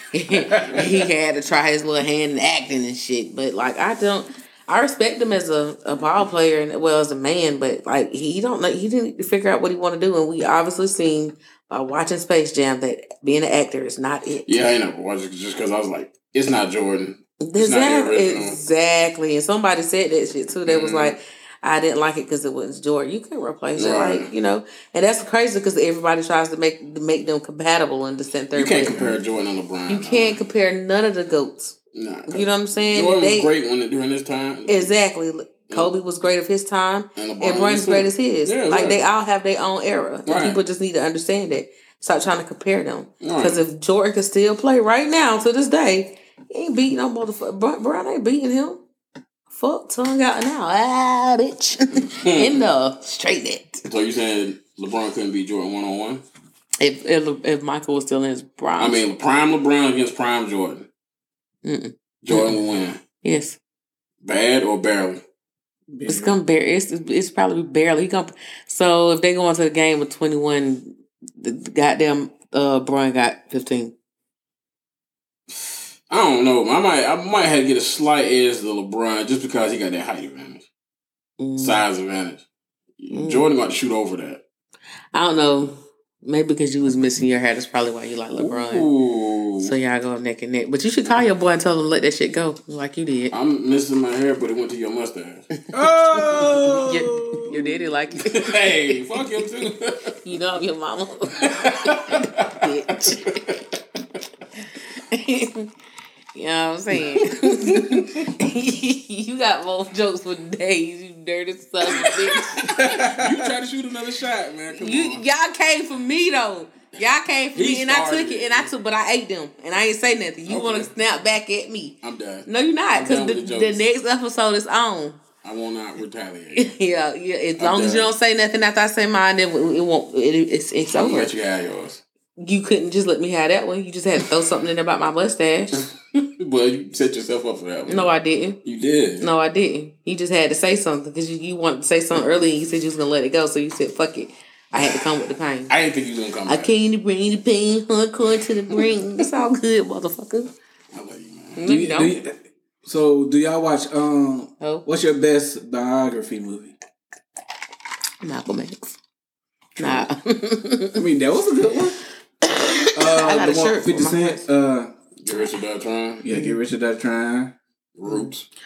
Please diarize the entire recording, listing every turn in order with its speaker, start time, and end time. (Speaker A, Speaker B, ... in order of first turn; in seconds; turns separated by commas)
Speaker A: 0.1-14.7, Speaker B: 0.4-0.9, Speaker C: 0.5-1.0, Speaker C: 14.5-18.6, Speaker A: 17.4-29.1, Speaker C: 20.7-21.2, Speaker C: 23.8-24.3, Speaker C: 28.5-30.4, Speaker B: 28.9-29.2, Speaker A: 29.9-31.8, Speaker C: 31.9-34.9, Speaker A: 32.3-33.5, Speaker A: 34.7-48.8, Speaker C: 37.2-39.0, Speaker C: 40.3-40.6, Speaker C: 43.2-43.6, Speaker A: 49.5-53.8, Speaker C: 52.0-52.6, Speaker C: 53.9-56.2, Speaker A: 56.8-59.0, Speaker C: 58.8-60.9, Speaker A: 61.6-62.6, Speaker C: 62.2-63.0, Speaker A: 63.2-63.6, Speaker C: 64.2-65.2, Speaker B: 65.9-66.4, Speaker A: 66.1-73.9, Speaker C: 76.1-80.7, Speaker A: 81.4-81.8, Speaker C: 81.6-82.4, Speaker C: 83.0-84.4, Speaker A: 83.1-83.5, Speaker A: 85.1-88.9, Speaker C: 88.4-89.8, Speaker A: 89.6-93.3, Speaker C: 93.3-95.5, Speaker B: 95.7-97.7, Speaker A: 96.1-98.9, Speaker C: 98.2-100.2, Speaker A: 100.2-103.5, Speaker C: 101.4-103.6, Speaker A: 105.0-105.7, Speaker A: 106.3-112.8, Speaker C: 112.0-115.2, Speaker B: 112.7-113.5, Speaker A: 114.7-125.2, Speaker C: 117.5-118.7, Speaker C: 120.5-120.9, Speaker C: 122.0-123.8, Speaker C: 125.4-126.7, Speaker A: 126.5-131.3, Speaker C: 127.6-128.1, Speaker C: 130.9-132.0, Speaker A: 132.4-135.9, Speaker C: 135.7-139.3, Speaker A: 137.9-138.6, Speaker A: 139.2-145.7, Speaker C: 144.8-145.0, Speaker C: 145.7-146.7, Speaker A: 146.5-150.5, Speaker C: 148.7-149.0, Speaker C: 150.9-151.6, Speaker A: 151.6-152.2, Speaker B: 151.7-156.8, Speaker A: 154.6-154.9, Speaker A: 158.2-159.0, Speaker B: 159.8-160.1, Speaker A: 159.8-161.0, Speaker B: 161.0-162.0, Speaker A: 162.4-164.4, Speaker B: 162.9-164.9, Speaker C: 165.2-166.2, Speaker B: 166.2-167.6, Speaker A: 166.3-166.6, Speaker C: 168.0-168.5